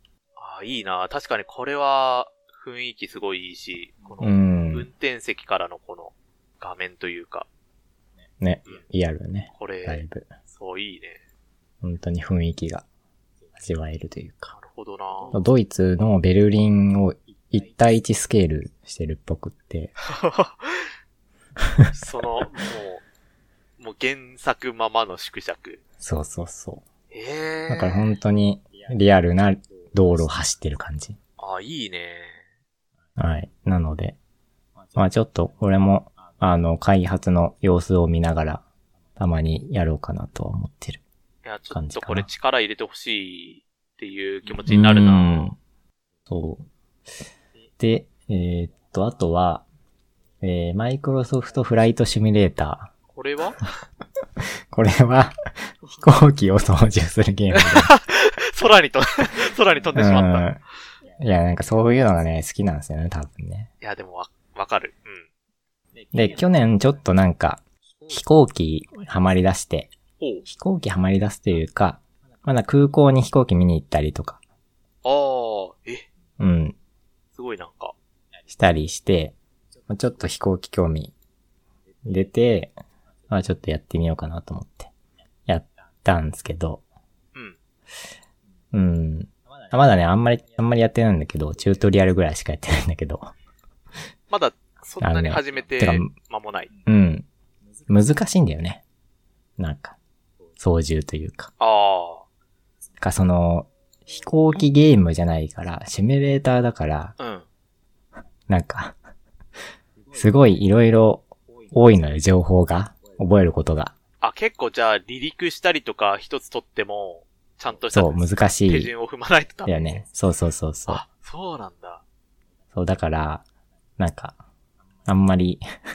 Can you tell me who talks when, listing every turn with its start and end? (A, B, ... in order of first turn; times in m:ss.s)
0:00.4-0:07.5 A
0:04.2-0:04.9 B
0:08.4-0:10.3 B
0:09.5-0:11.2 A
0:11.8-0:12.8 B
0:13.6-0:14.5 B
0:14.5-0:15.4 A
0:15.3-0:19.9 B
0:20.0-0:20.8 A
0:21.9-0:23.0 A
0:23.8-0:25.8 A
0:26.0-0:26.8 B
0:27.1-0:28.1 A
0:27.7-0:31.2 B
0:31.4-0:32.4 A
0:33.2-0:34.2 B
0:34.9-0:38.6 B
0:39.2-0:41.0 B
0:41.4-0:45.5 A
0:41.7-0:42.3 B
0:44.6-0:45.6 B
0:46.3-0:46.7 B
0:47.8-0:49.6 B
0:50.4-0:52.9 B
0:53.1-0:53.6 A
0:54.7-0:55.3 B
0:56.0-0:57.9 B
0:57.5-1:00.5 A
0:59.9-1:00.6 B
1:01.2-1:03.7 B
1:03.8-1:05.3 A
1:06.1-1:09.9 B
1:10.2-1:10.4 A
1:10.4-1:14.4 B
1:15.0-1:16.0 A
1:16.4-1:16.8 B
1:17.3-1:17.9 A
1:18.5-1:19.3 B
1:19.9-1:21.1 B
1:22.0-1:22.7 B
1:23.3-1:24.9 B
1:25.5-1:26.8 B
1:28.7-1:33.3 B
1:34.3-1:36.7 A
1:35.0-1:36.1 B
1:36.8-1:37.3 B
1:37.9-1:38.8 B
1:39.6-1:40.0 B
1:40.6-1:41.5 B
1:41.6-1:42.2 A
1:43.0-1:47.1 B
1:47.2-1:47.5 A
1:48.5-1:49.0 B
1:50.1-1:53.9 B
1:54.2-2:00.0 A
1:57.9-1:58.9 B
1:59.6-2:01.0 B
2:00.9-2:02.0 A
2:02.7-2:03.4 B
2:04.0-2:04.4 B
2:05.0-2:05.6 B